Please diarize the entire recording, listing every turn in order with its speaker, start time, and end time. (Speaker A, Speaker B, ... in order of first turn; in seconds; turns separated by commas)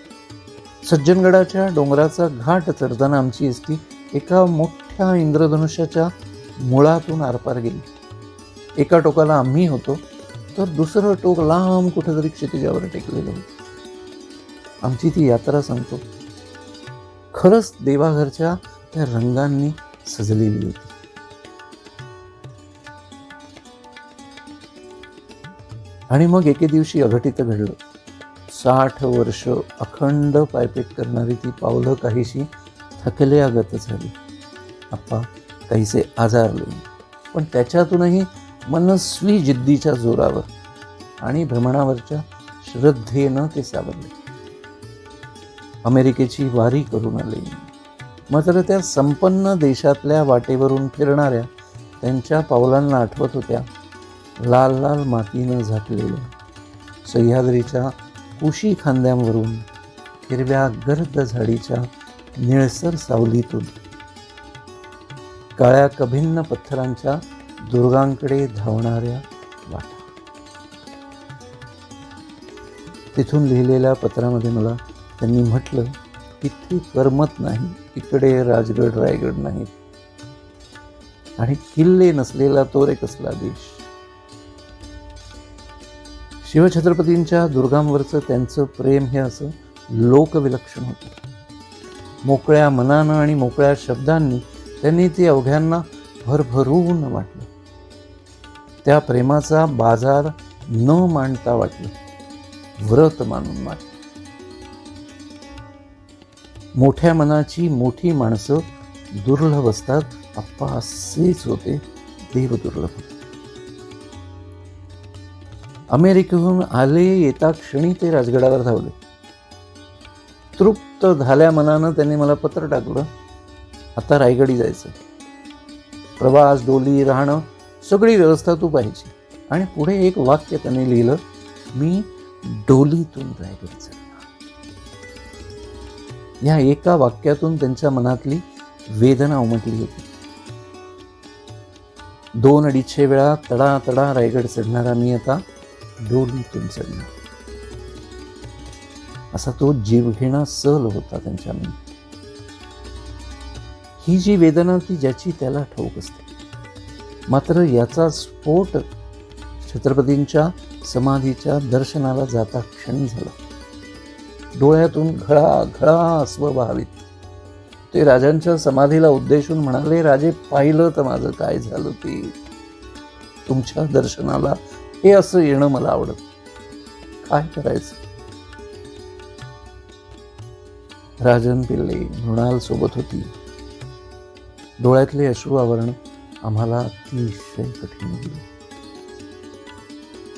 Speaker A: 0.8-7.9, Speaker A: 8.8-13.5, Speaker A: 14.8-16.0, Speaker A: 17.3-20.9, Speaker A: 26.1-27.8, Speaker A: 28.5-34.1, Speaker A: 34.9-40.5, Speaker A: 41.2-44.1, Speaker A: 45.9-47.7, Speaker A: 48.3-53.7, Speaker A: 54.4-56.3, Speaker A: 57.0-59.7, Speaker A: 60.3-63.8, Speaker A: 65.6-70.1, Speaker A: 73.1-79.7, Speaker A: 81.4-83.9, Speaker A: 86.4-91.2, Speaker A: 92.2-97.5, Speaker A: 98.8-101.9, Speaker A: 102.8-104.0, Speaker A: 106.8-113.2, Speaker A: 115.9-119.0, Speaker A: 120.6-123.1, Speaker A: 124.0-125.0, Speaker A: 126.2-131.2, Speaker A: 131.7-134.3, Speaker A: 136.4-140.1, Speaker A: 142.4-145.4, Speaker A: 146.0-147.1, Speaker A: 149.3-151.8, Speaker A: 154.0-156.3, Speaker A: 157.3-158.8, Speaker A: 159.6-163.4, Speaker A: 164.5-167.1, Speaker A: 167.9-172.4, Speaker A: 173.5-176.2, Speaker A: 177.2-178.0, Speaker A: 181.2-183.3, Speaker A: 184.8-188.5